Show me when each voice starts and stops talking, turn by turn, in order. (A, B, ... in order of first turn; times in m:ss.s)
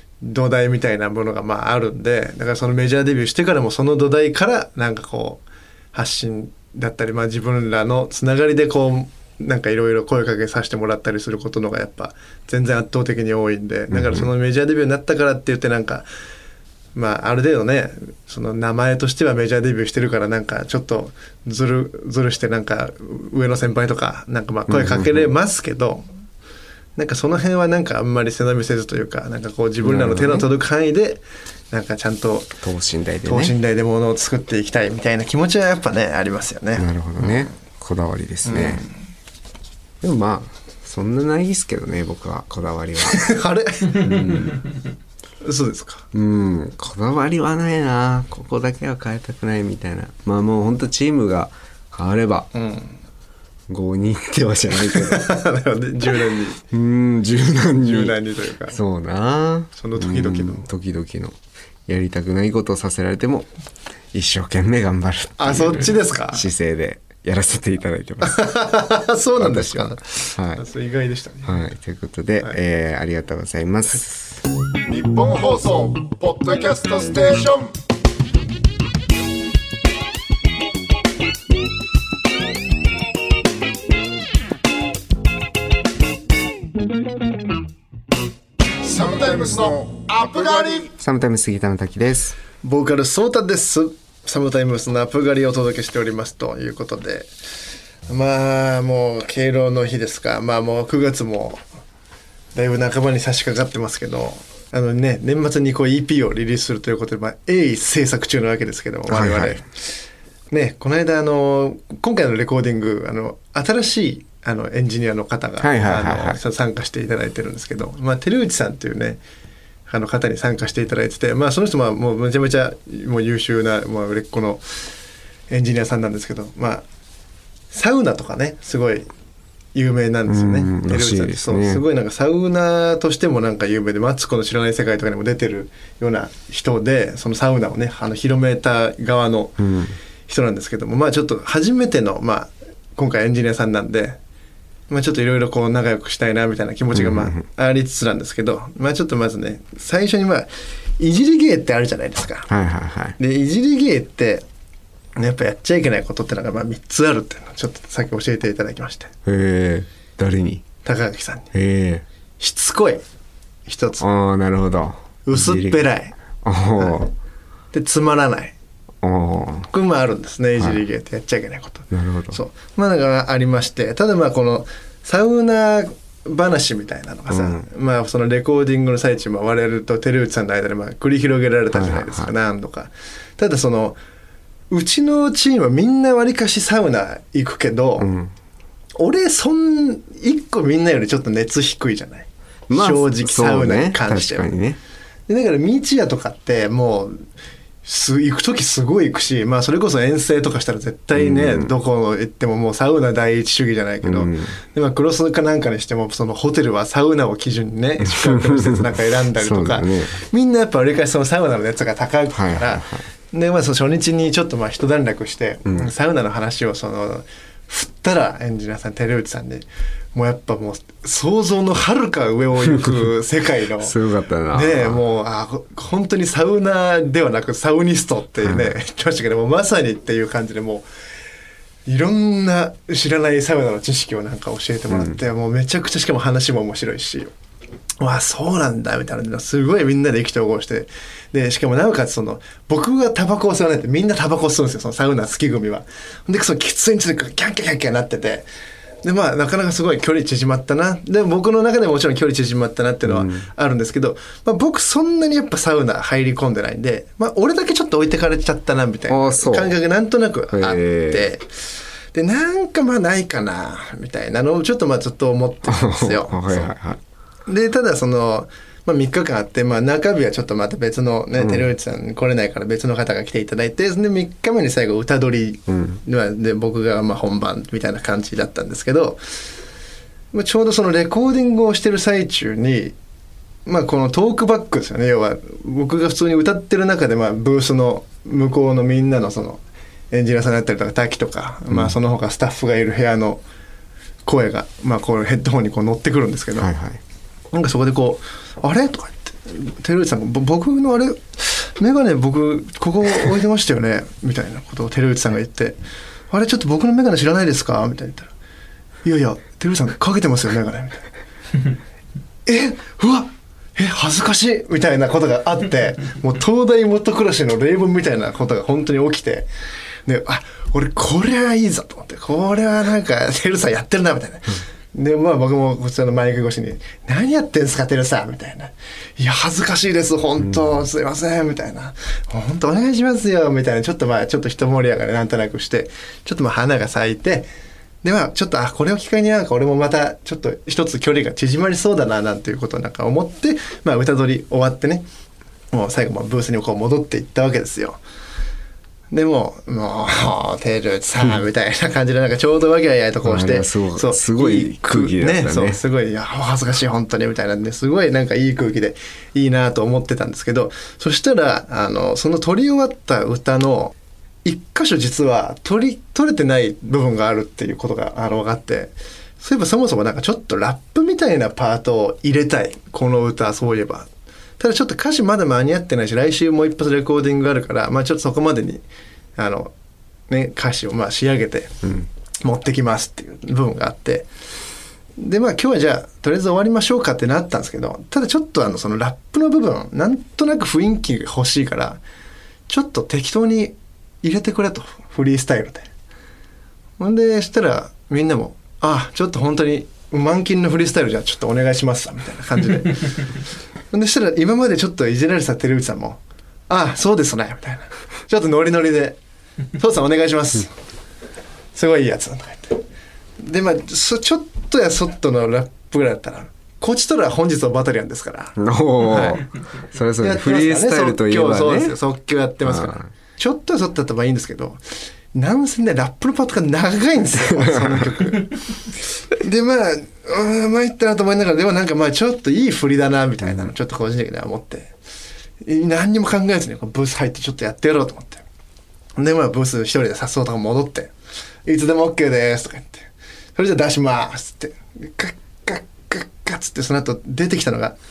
0:00.2-0:16.0 A
0:13.9-0:14.3 B
0:16.9-0:26.0 A
0:24.7-0:25.3 B
0:27.0-0:32.5 A
0:29.8-0:30.5 B
0:32.6-0:33.5 B
0:33.2-0:37.4 A
0:36.7-0:38.9 B
0:38.4-0:38.9 A
0:40.0-0:43.3 B
0:43.0-0:44.3 A
0:44.0-0:44.6 B
0:45.4-0:46.0 A
0:46.1-0:52.5 B
0:52.5-0:53.0 A
0:53.7-0:55.3 B
0:54.9-0:56.6 A
0:56.7-0:58.2 B
0:57.8-0:58.8 A
0:58.7-1:01.3 B
0:59.7-1:00.7 A
1:01.9-1:03.5 B
1:04.1-1:08.5 B
1:05.4-1:06.4 A
1:08.2-1:11.6 A
1:09.4-1:10.6 B
1:11.4-1:14.2 B
1:14.9-1:17.7 C
1:28.8-1:30.9 C
1:30.9-1:32.4 B
1:32.6-1:37.3 A
1:38.1-1:41.6 A
1:42.5-1:49.9 A
1:49.1-1:49.6 B
1:50.5-1:59.2 A
1:55.6-1:56.4 B
1:59.8-2:04.8 A
2:05.5-2:06.8 A
2:07.7-2:09.1 A
2:09.7-2:19.6 A
2:10.3-2:11.8 B
2:19.6-2:20.0 B
2:20.3-2:24.2 A
2:24.9-2:32.5 A
2:26.9-2:27.4 B
2:32.5-2:33.2 B
2:33.2-2:34.4 A
2:35.2-2:39.1 A
2:39.2-2:40.6 B
2:40.8-2:41.5 A
2:41.5-2:42.0 B
2:42.4-2:43.0 A
2:43.6-2:44.0 A
2:44.0-2:45.8 B
2:45.2-2:46.2 A
2:46.4-2:47.1 B
2:46.8-2:47.1 A
2:47.7-2:48.5 A
2:49.0-2:49.7 B
2:49.7-3:04.0 A
2:50.6-2:50.8 B
2:51.9-2:52.4 B
2:57.3-2:57.6 B
3:01.7-3:02.3 B
3:04.7-3:08.1 A
3:08.0-3:08.3 B
3:09.0-3:14.5 A
3:12.7-3:14.8 B
3:15.3-3:17.2 A
3:17.8-3:44.0 A
3:21.1-3:21.7 B
3:24.0-3:24.6 B
3:28.3-3:28.8 B
3:29.4-3:30.2 B
3:32.3-3:33.0 B
3:43.8-3:45.0 B
3:44.5-3:50.8 A
3:48.4-3:48.7 B
3:51.8-3:57.3 A
3:54.9-3:55.2 B
3:58.0-4:08.5 A
4:09.0-4:26.7 A
4:13.0-4:13.5 B
4:19.1-4:19.7 B
4:20.5-4:21.2 B
4:25.7-4:27.0 B
4:27.5-4:39.2 A
4:31.4-4:31.6 B
4:35.7-4:36.0 B
4:40.3-4:43.0 A
4:43.6-4:53.4 A
4:54.2-4:56.7 A
4:56.6-4:57.0 B
4:57.5-5:05.8 A
5:06.3-5:08.3 A
5:09.0-5:11.1 A
5:12.4-5:19.5 A
5:20.0-5:37.5 A
5:38.0-5:45.0 A
5:45.7-5:48.0 A
5:49.1-6:03.9 A
5:53.2-5:55.8 B
6:04.4-6:14.1 A
6:14.6-6:18.8 A
6:19.4-6:19.7 A
6:20.3-6:24.3 A
6:25.2-6:32.0 A
6:32.7-6:35.9 A
6:37.0-6:43.2 A
6:43.9-6:49.2 A
6:49.8-6:50.7 A
6:51.7-6:52.8 A
6:53.4-6:59.4 A
6:58.6-7:02.0 B
7:00.2-7:04.8 A
7:02.6-7:03.1 B
7:05.3-7:08.6 A
7:07.5-7:08.1 B
7:09.3-7:14.9 A
7:13.4-7:13.7 B
7:15.6-7:18.4 A
7:19.2-7:21.1 A
7:21.6-7:28.0 A